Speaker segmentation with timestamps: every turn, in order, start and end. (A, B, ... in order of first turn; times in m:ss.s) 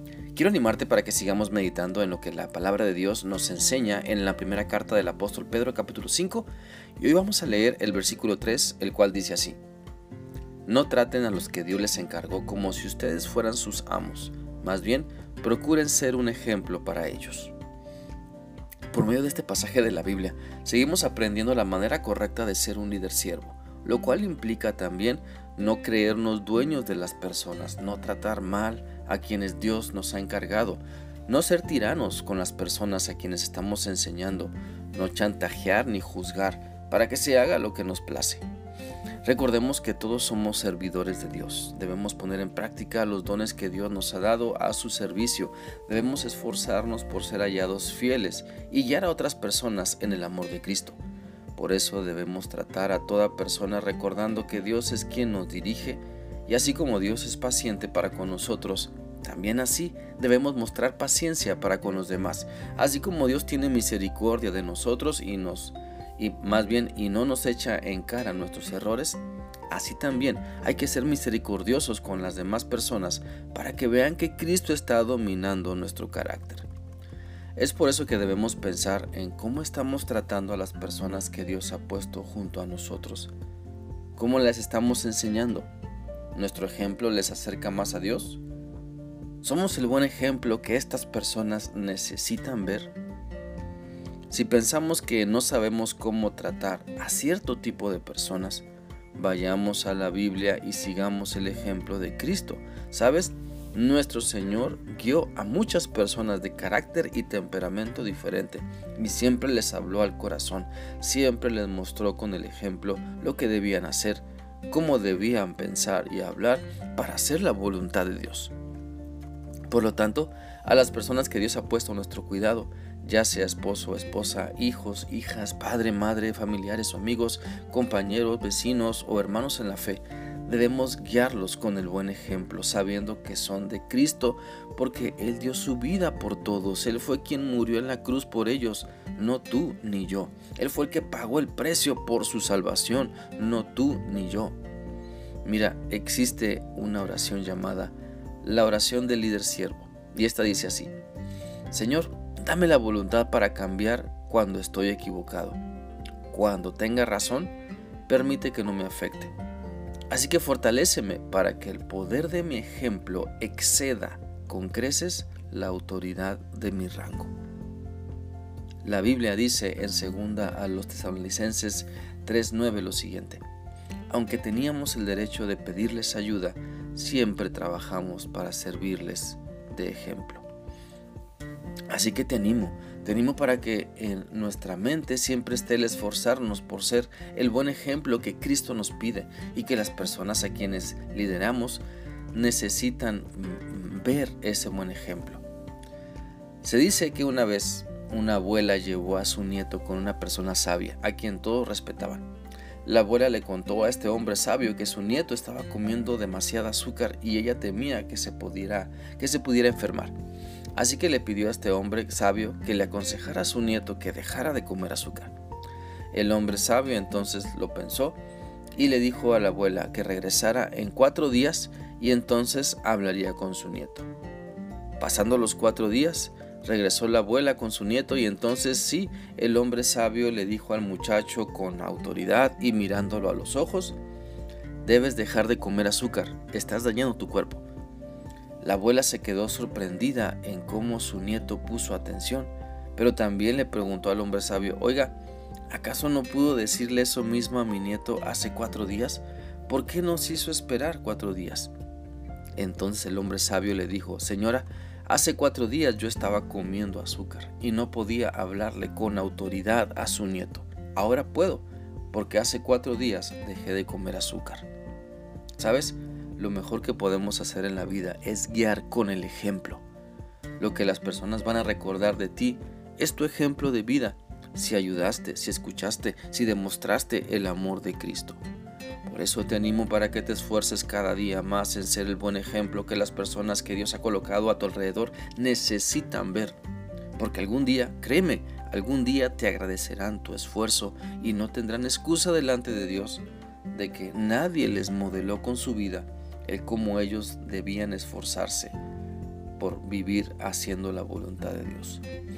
0:00.3-0:09.6 A
0:10.7-0:17.5 A
0:18.9-0:38.4 A
0:39.2-0:51.0 A
0:51.6-1:16.7 A
1:17.6-1:23.3 A
1:24.2-1:25.7 A
1:26.3-1:28.4 A
1:29.4-1:32.9 A
1:34.3-1:58.5 A
1:59.7-2:24.6 A
2:25.4-2:30.9 A
2:31.7-2:35.6 A
2:36.3-2:37.5 A
2:38.1-2:39.3 A
2:40.1-2:47.3 A
2:48.8-2:53.4 A
2:54.1-3:00.4 A
3:01.9-3:15.4 A
3:16.6-3:22.2 A
3:22.8-3:30.1 A
3:30.8-3:35.3 A
3:36.1-3:38.2 A
3:38.8-3:44.1 A
3:45.0-3:54.0 A
3:54.8-3:57.6 A
3:58.6-4:05.2 A
4:05.7-4:11.7 A
4:12.6-4:24.7 A
4:25.6-4:29.8 A
4:30.6-4:38.4 A
4:39.0-4:46.6 A
4:47.2-4:58.8 A
4:59.6-5:02.0 A